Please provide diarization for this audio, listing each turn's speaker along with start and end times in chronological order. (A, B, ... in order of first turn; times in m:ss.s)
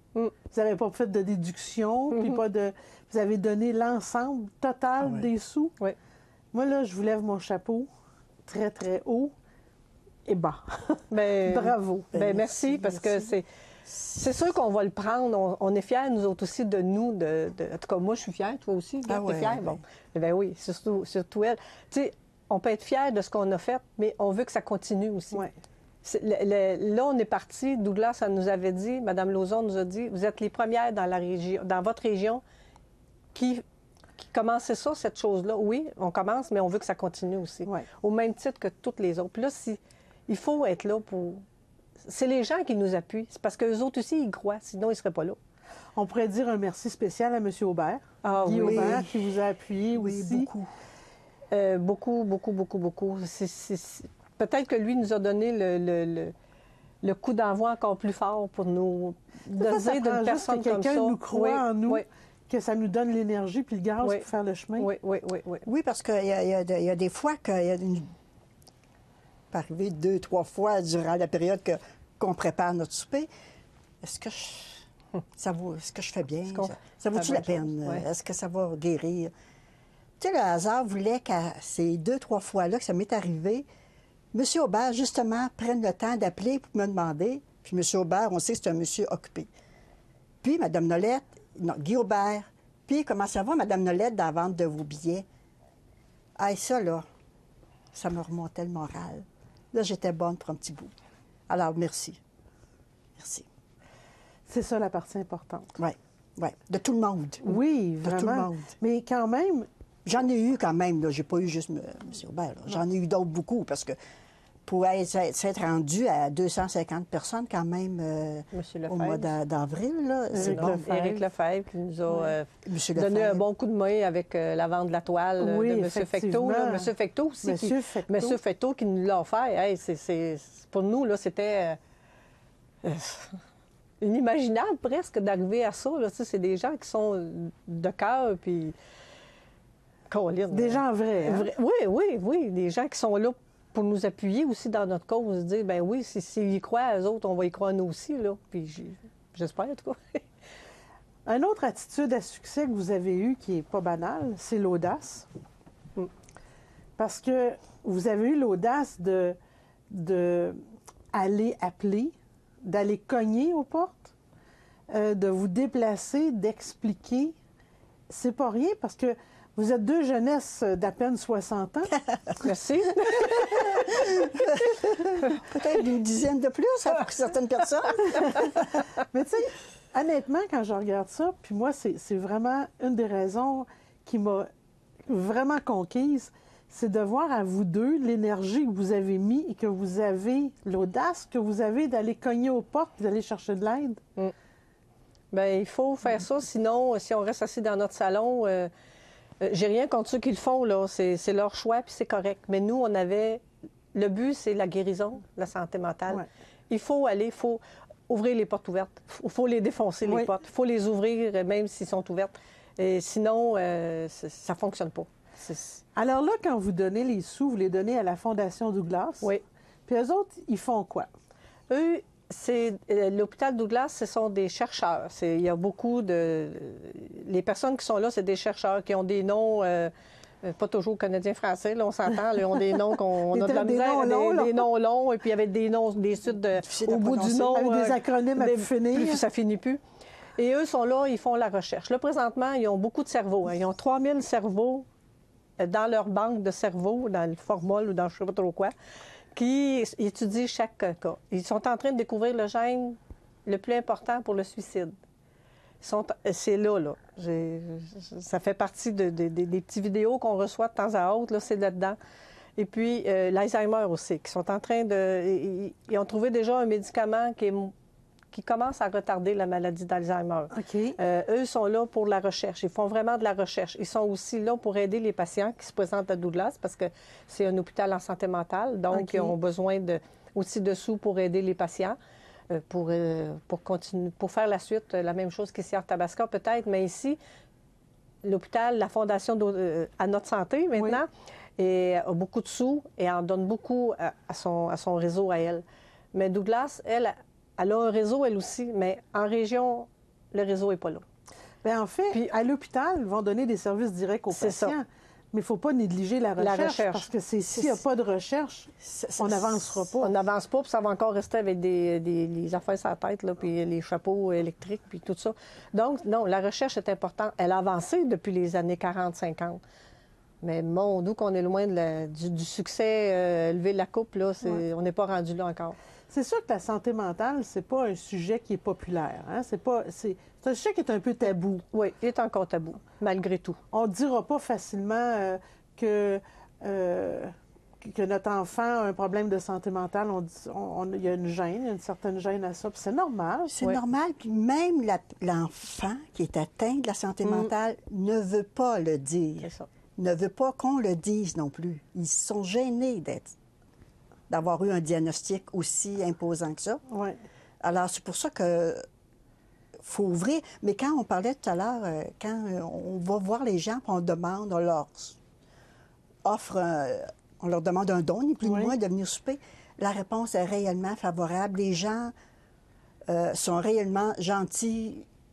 0:00.5-0:05.7 A
0:02.1-0:02.4 B
0:05.0-0:05.2 C
0:06.5-0:07.9 A
0:08.5-0:09.3 A
0:10.2-0:12.5 A
0:11.1-0:13.4 B
0:12.1-0:13.2 C
0:13.9-0:14.2 C
0:14.1-0:25.4 B
0:19.1-0:19.8 C
0:26.0-0:32.4 B
0:33.3-0:33.6 B
0:34.2-0:41.4 B
0:42.0-0:45.4 B
0:46.0-0:50.5 A
0:48.2-0:49.0 B
0:48.6-0:49.3 C
0:50.0-0:50.7 C
0:51.5-0:56.3 B
0:57.0-1:02.0 B
0:59.5-1:04.9 A
1:04.8-1:05.7 B
1:05.6-1:08.1 C
1:09.5-1:13.3 C
1:14.0-1:19.3 C
1:16.5-1:18.0 B
1:20.2-1:23.6 C
1:24.3-1:29.5 C
1:30.4-1:35.2 C
1:36.4-1:37.0 C
1:37.9-1:40.9 C
1:41.5-1:42.2 C
1:43.2-1:43.4 C
1:44.5-1:45.7 A
1:45.8-1:47.5 C
1:47.4-1:49.7 A
1:48.0-1:48.5 C
1:50.0-1:54.0 C
1:54.6-2:00.8 C
1:58.5-1:59.3 B
2:00.3-2:01.2 A
2:00.4-2:11.8 B
2:02.6-2:03.4 C
2:05.4-2:06.9 A
2:07.4-2:08.4 A
2:12.8-2:13.4 B
2:14.0-2:18.7 B
2:20.1-2:30.2 B
2:20.5-2:21.5 A
2:31.2-2:35.3 A
2:37.0-2:39.4 A
2:39.9-2:40.6 A
2:41.1-2:44.1 A
2:44.9-2:47.3 A
2:48.1-2:52.0 A
2:52.4-2:53.9 B
2:53.2-2:58.5 C
2:58.1-3:04.5 A
3:05.1-3:14.0 A
3:15.3-3:18.7 B
3:19.4-3:23.4 B
3:23.9-3:35.8 B
3:30.0-3:30.3 A
3:35.9-3:39.3 A
3:39.9-3:41.1 A
3:41.7-3:59.8 B
3:53.3-3:54.6 A
3:56.6-3:57.5 C
3:57.4-3:59.2 A
4:00.4-4:04.8 B
4:05.6-4:08.7 B
4:09.3-4:14.9 B
4:15.8-4:22.0 B
4:22.6-4:27.7 B
4:28.3-4:42.0 B
4:30.5-4:31.0 A
4:38.9-4:39.3 A
4:42.5-4:47.2 B
4:48.2-5:01.0 B
5:01.6-5:10.1 A
5:04.3-5:04.8 B
5:06.4-5:07.1 B
5:07.5-5:07.8 C
5:08.8-5:09.8 C
5:10.0-5:19.6 B
5:20.4-5:25.8 B
5:26.1-5:31.6 A
5:31.7-5:33.6 B
5:33.7-5:43.6 A
5:43.5-5:53.3 C
5:49.4-5:49.7 B
5:54.3-5:56.8 C
5:56.9-5:57.2 A
5:57.6-5:58.8 C
5:59.8-6:05.2 C
6:06.2-6:12.1 C
6:08.4-6:08.7 A
6:13.1-6:15.1 C